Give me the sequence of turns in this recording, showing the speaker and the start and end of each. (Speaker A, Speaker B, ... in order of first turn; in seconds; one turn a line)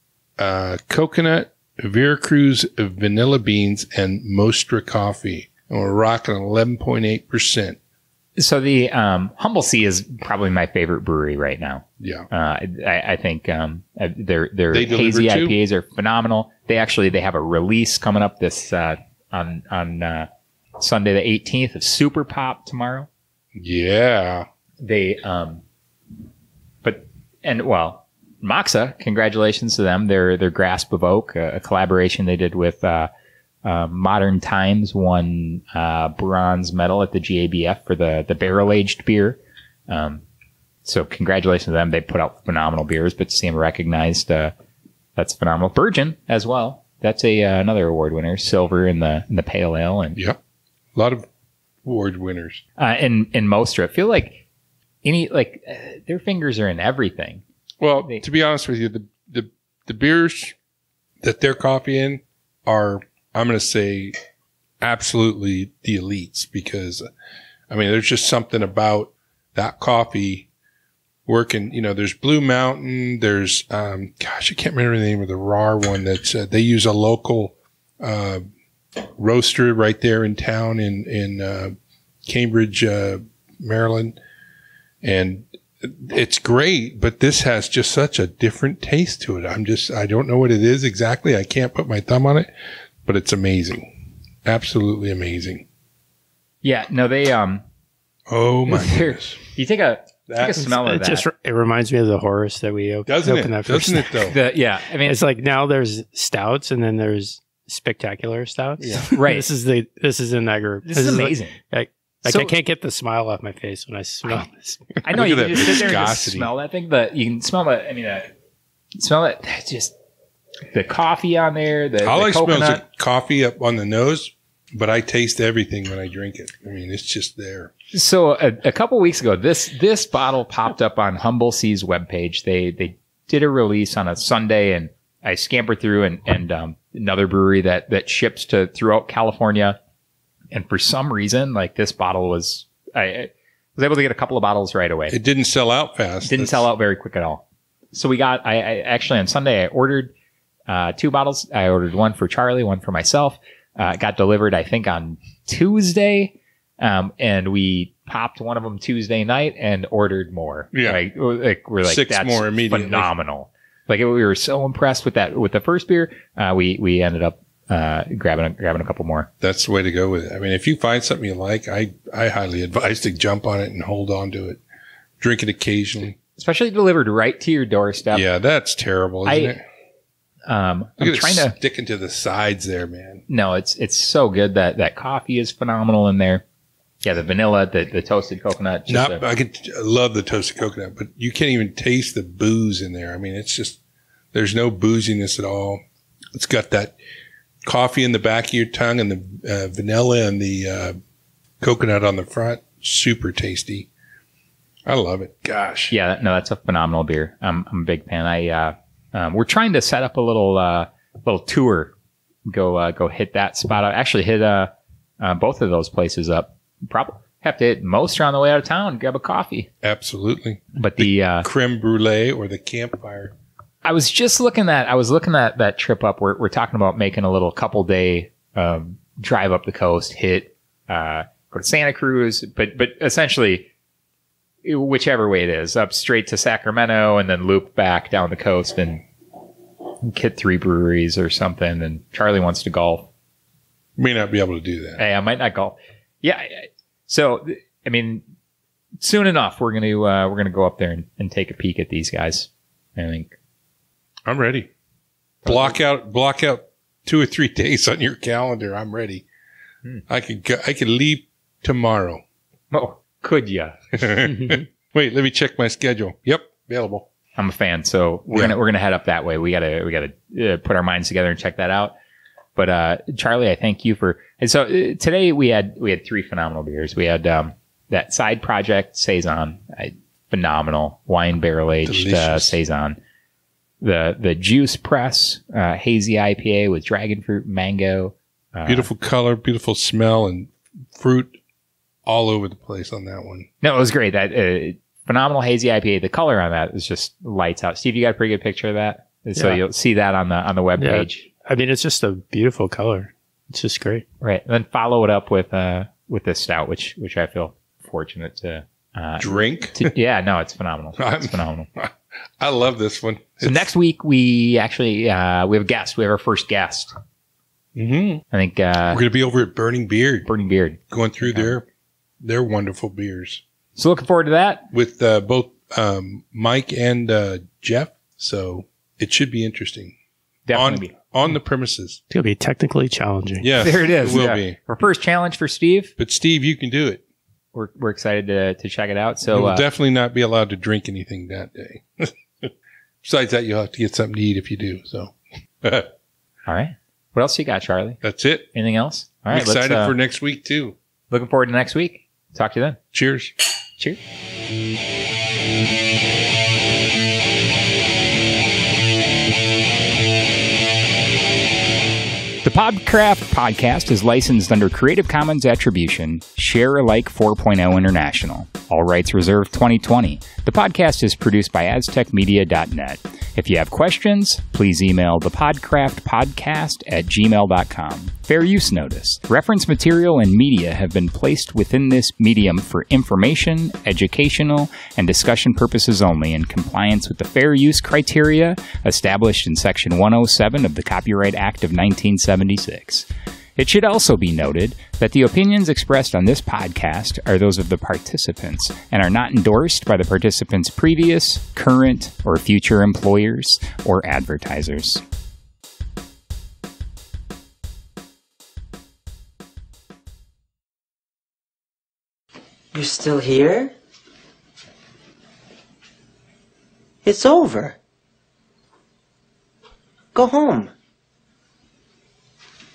Speaker A: 0.4-7.8
Speaker B: 8.4-23.1
Speaker A: 12.0-12.3
Speaker A: 14.7-15.6
Speaker A: 23.6-24.5
Speaker B: 24.8-25.6
Speaker B: 26.8-33.1
Speaker B: 33.6-40.2
Speaker B: 40.9-44.5
Speaker B: 45.2-50.2
Speaker A: 50.9-51.3
Speaker A: 51.8-52.6
Speaker B: 52.8-54.5
Speaker B: 55.0-57.4
Speaker A: 57.8-60.5
Speaker A: 61.2-64.2
Speaker A: 64.8-67.1
Speaker A: 67.7-70.5
Speaker A: 71.3-78.5
Speaker A: 79.0-81.8
Speaker A: 82.3-84.2
Speaker A: 85.0-92.5
Speaker A: 93.0-93.9
Speaker A: 94.4-95.7
Speaker B: 96.6-97.6
Speaker A: 98.3-99.4
Speaker B: 98.7-101.3
Speaker A: 100.3-100.8
Speaker C: 100.7-104.4
Speaker A: 103.1-104.4
Speaker B: 104.3-105.2
Speaker C: 105.0-115.0
Speaker A: 108.8-109.1
Speaker B: 109.1-109.5
Speaker B: 110.8-111.5
Speaker B: 112.3-112.5
Speaker B: 115.0-118.3
Speaker A: 115.1-116.5
Speaker B: 119.0-119.9
Speaker B: 120.7-122.8
Speaker A: 122.0-127.7
Speaker B: 127.9-139.8
Speaker B: 140.5-145.2
Speaker A: 145.1-146.7
Speaker B: 146.2-150.1
Speaker B: 150.7-169.3
Speaker A: 160.7-161.0
Speaker A: 161.8-163.1
Speaker A: 169.4-174.6
Speaker A: 175.2-176.2
Speaker B: 176.4-178.2
Speaker A: 178.1-179.6
Speaker B: 179.3-179.6
Speaker B: 180.5-181.6
Speaker A: 181.0-183.2
Speaker B: 183.3-186.4
Speaker B: 187.0-189.2
Speaker A: 188.9-193.8
Speaker A: 194.3-195.8
Speaker A: 196.3-197.0
Speaker A: 197.6-201.0
Speaker A: 201.6-203.9
Speaker A: 204.8-205.9
Speaker B: 205.9-211.9
Speaker B: 212.5-219.7
Speaker A: 219.8-223.3
Speaker B: 220.8-221.5
Speaker B: 223.8-233.7
Speaker B: 234.6-239.0
Speaker B: 240.0-243.1
Speaker A: 244.0-245.0
Speaker B: 245.0-248.2
Speaker B: 249.0-253.3
Speaker A: 254.3-254.7
Speaker B: 255.4-255.7
Speaker A: 255.4-259.2
Speaker A: 260.1-262.2
Speaker B: 262.7-264.3
Speaker A: 263.9-267.1
Speaker B: 267.4-271.9
Speaker A: 268.3-268.6
Speaker B: 272.6-283.0
Speaker A: 281.9-282.6
Speaker B: 283.8-288.9
Speaker A: 288.7-291.4
Speaker A: 292.1-293.5
Speaker B: 293.6-301.2
Speaker C: 299.4-299.6
Speaker C: 300.8-304.0
Speaker B: 304.2-311.7
Speaker A: 309.2-309.9
Speaker A: 311.0-313.7
Speaker B: 313.4-316.9
Speaker A: 317.8-318.2
Speaker B: 318.3-319.0
Speaker A: 318.9-320.3
Speaker B: 320.2-321.6
Speaker A: 320.9-321.7
Speaker A: 322.2-323.4
Speaker B: 323.8-324.7
Speaker A: 324.7-329.9
Speaker B: 330.5-330.9
Speaker A: 330.5-332.0
Speaker C: 332.1-333.5
Speaker A: 333.4-334.6
Speaker B: 333.6-335.9
Speaker A: 336.0-337.0
Speaker B: 337.5-339.6
Speaker A: 339.3-345.9
Speaker B: 346.5-348.0
Speaker A: 348.0-348.5
Speaker B: 348.5-349.9
Speaker A: 349.3-350.8
Speaker B: 351.1-352.8
Speaker A: 352.9-353.3
Speaker B: 362.4-405.0
Speaker D: 412.7-413.7
Speaker D: 417.0-417.8
Speaker D: 420.1-420.7